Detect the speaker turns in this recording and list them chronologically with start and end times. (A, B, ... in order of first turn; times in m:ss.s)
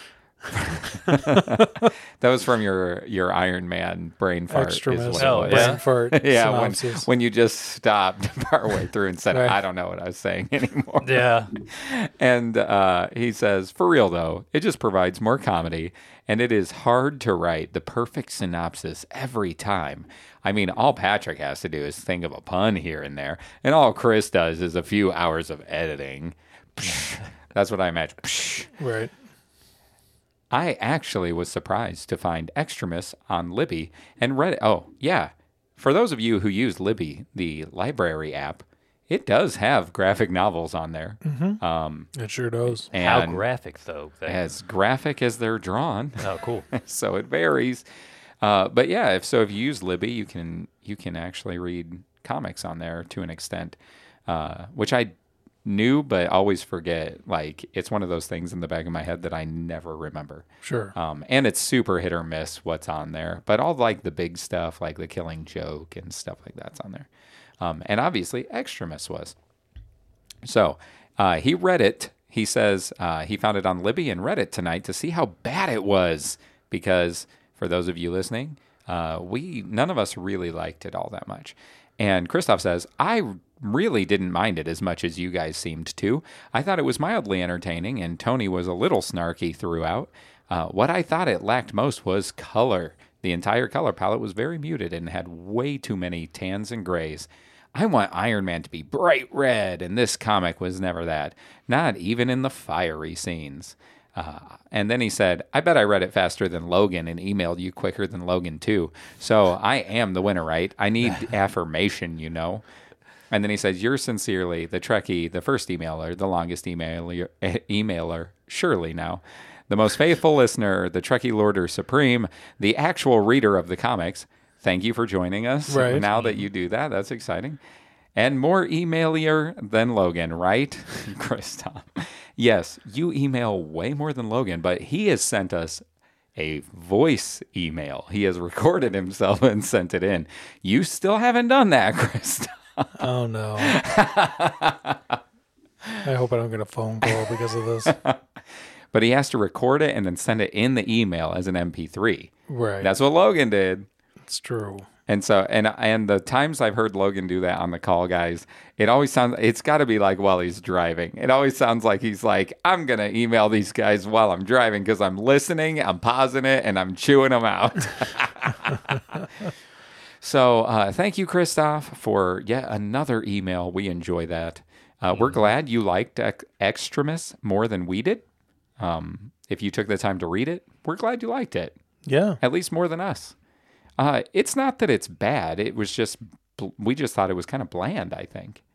0:00.4-0:28.7 A
0:01.4-0:01.8 B
0:04.5-0:07.1 B
0:05.2-0:05.8 C
0:09.3-0:09.6 B
0:11.0-0:11.5 C
0:28.8-0:29.1 B
0:30.5-0:42.1 A
0:41.2-0:41.6 B
0:42.1-0:42.9 B
0:42.6-0:43.4 A
0:42.9-0:44.4 C
0:44.3-0:47.8 A
0:46.2-0:46.7 C
0:48.4-0:55.1 A
0:55.6-1:07.1 A
1:00.6-1:00.9 B
1:07.6-1:09.3 A
1:10.4-1:52.6 A
1:53.3-2:07.6 A
2:05.7-2:06.0 B
2:05.9-2:06.4 C
2:08.2-2:15.8 A
2:16.4-2:23.0 A
2:23.0-2:23.8 B
2:23.6-2:25.2 A
2:26.0-2:28.0 B
2:27.8-2:28.2 A
2:28.9-2:33.9 A
2:32.5-2:32.9 B
2:34.2-2:34.9 B
2:35.1-2:49.5 A
2:50.2-2:58.2 A
2:55.1-2:55.4 C
2:58.8-3:01.8 A
3:02.0-3:02.4 B
3:02.4-3:03.3 A
3:04.0-3:08.6 A